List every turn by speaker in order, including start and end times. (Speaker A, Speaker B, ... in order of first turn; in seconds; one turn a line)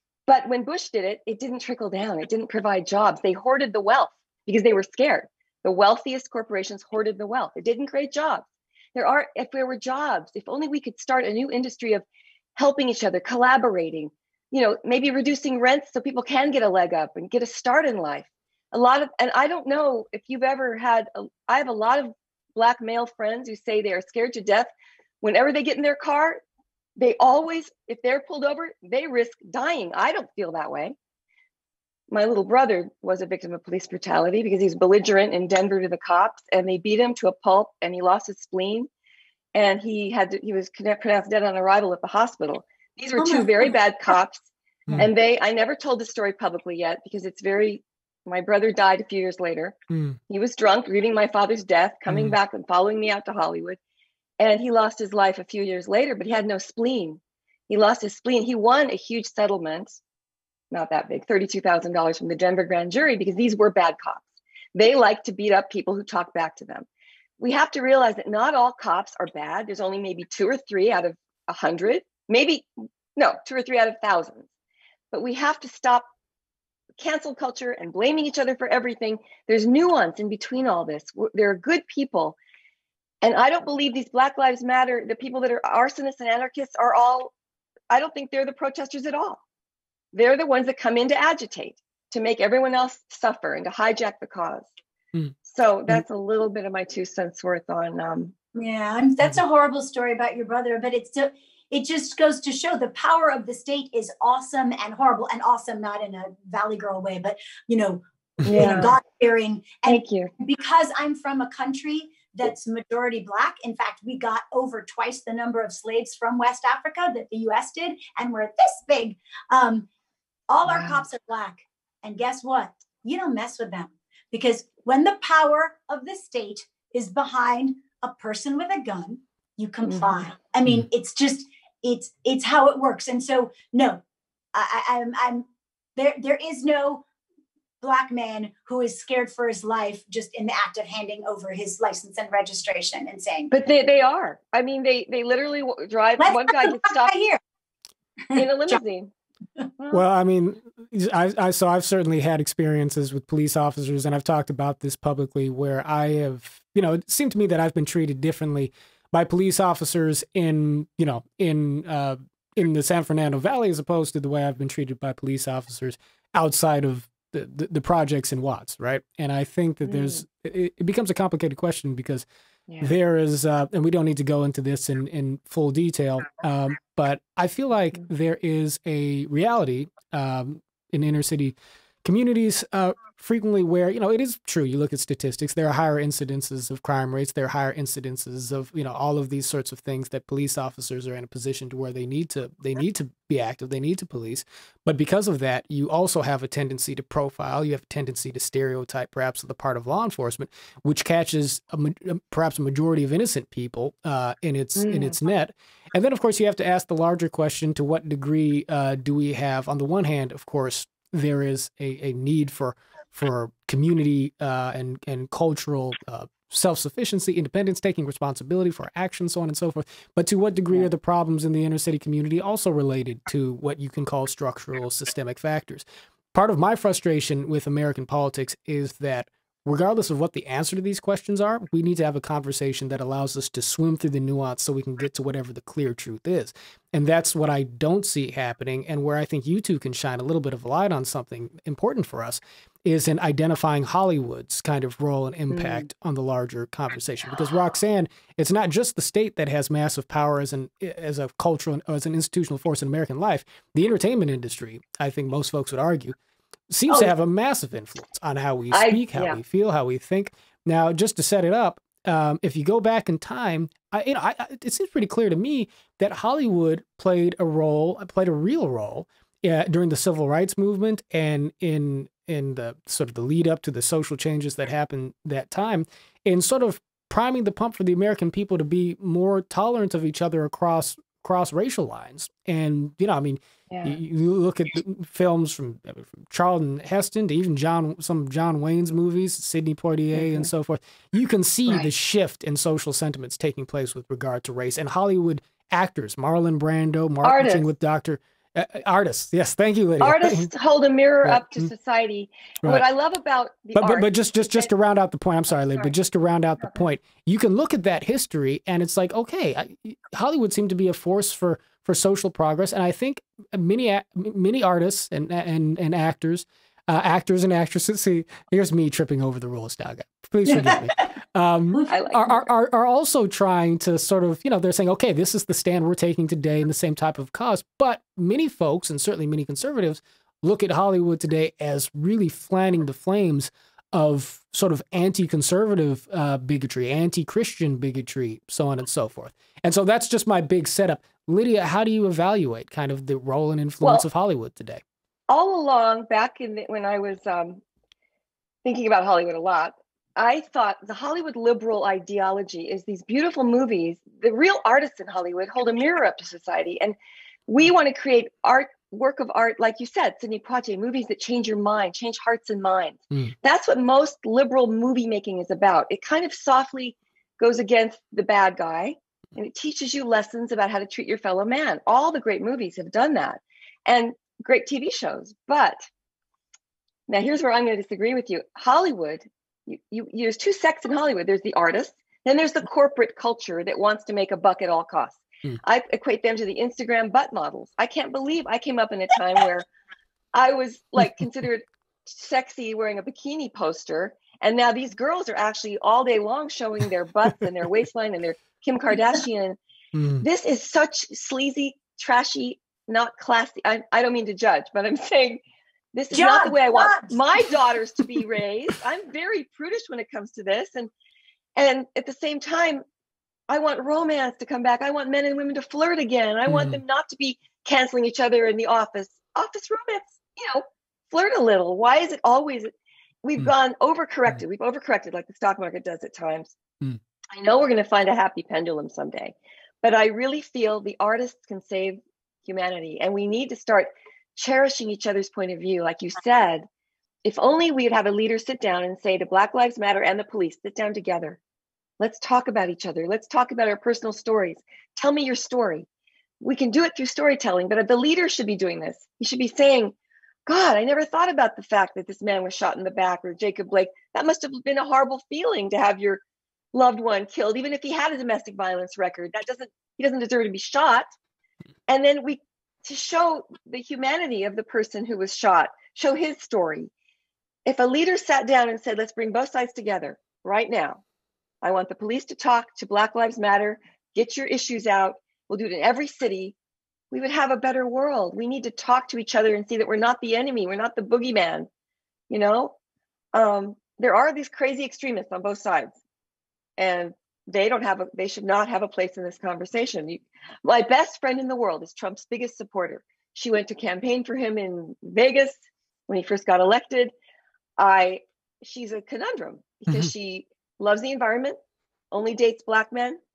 Speaker A: 0.3-12.1
Speaker A: 12.6-24.7
Speaker A: 25.2-26.4
Speaker A: 27.0-31.0
Speaker A: 32.1-38.9
Speaker A: 39.5-44.4
Speaker B: 43.2-43.8
Speaker A: 45.0-49.8
Speaker C: 49.9-50.2
Speaker A: 50.3-53.8
Speaker C: 52.1-52.4
Speaker A: 54.4-60.0
Speaker A: 60.7-64.2
Speaker A: 64.8-66.9
Speaker A: 67.4-74.5
Speaker A: 75.1-76.1
Speaker A: 77.0-82.4
Speaker A: 83.2-87.3
Speaker A: 87.9-89.4
Speaker A: 90.1-94.7
Speaker A: 95.4-98.3
Speaker B: 98.5-119.9
Speaker A: 108.5-109.0
Speaker A: 109.9-110.3
Speaker B: 120.5-134.0
Speaker A: 120.7-121.0
Speaker A: 129.8-130.2
Speaker B: 134.5-135.4
Speaker B: 136.0-137.0
Speaker B: 137.8-143.5
Speaker A: 143.5-147.1
Speaker B: 146.2-147.4
Speaker B: 148.3-148.8
Speaker A: 148.3-149.1
Speaker A: 149.8-150.1
Speaker C: 149.9-172.2
Speaker A: 169.8-170.2
Speaker A: 172.7-172.9
Speaker C: 172.8-256.2
Speaker A: 204.8-205.2
Speaker A: 245.5-245.8
Speaker C: 256.7-300.5
Speaker A: 258.7-259.4
Speaker A: 283.7-284.0
Speaker A: 290.1-290.5
Speaker A: 297.2-297.7
Speaker A: 300.0-304.7
Speaker C: 301.2-301.7
Speaker C: 303.8-344.8
Speaker B: 320.5-320.8
Speaker A: 321.9-322.5
Speaker A: 345.3-347.6
Speaker A: 348.6-357.0
Speaker A: 357.5-375.9
Speaker A: 377.1-389.7
Speaker A: 390.3-399.6
Speaker C: 399.9-400.2
Speaker A: 400.2-405.4
Speaker A: 405.9-410.9
Speaker B: 406.1-407.2
Speaker A: 411.6-412.8
Speaker A: 413.5-422.7
Speaker C: 416.5-416.8
Speaker A: 423.2-426.6
Speaker A: 427.3-436.7
Speaker A: 437.2-441.4
Speaker A: 442.0-445.9
Speaker A: 446.4-449.9
Speaker A: 450.5-456.2
Speaker A: 456.7-461.1
Speaker A: 461.9-466.9
Speaker A: 467.7-471.0
Speaker A: 471.6-476.5
Speaker A: 477.1-481.7
Speaker A: 482.3-482.8
Speaker A: 483.3-485.9
Speaker A: 486.8-497.1
Speaker A: 497.8-501.6
Speaker A: 502.1-503.2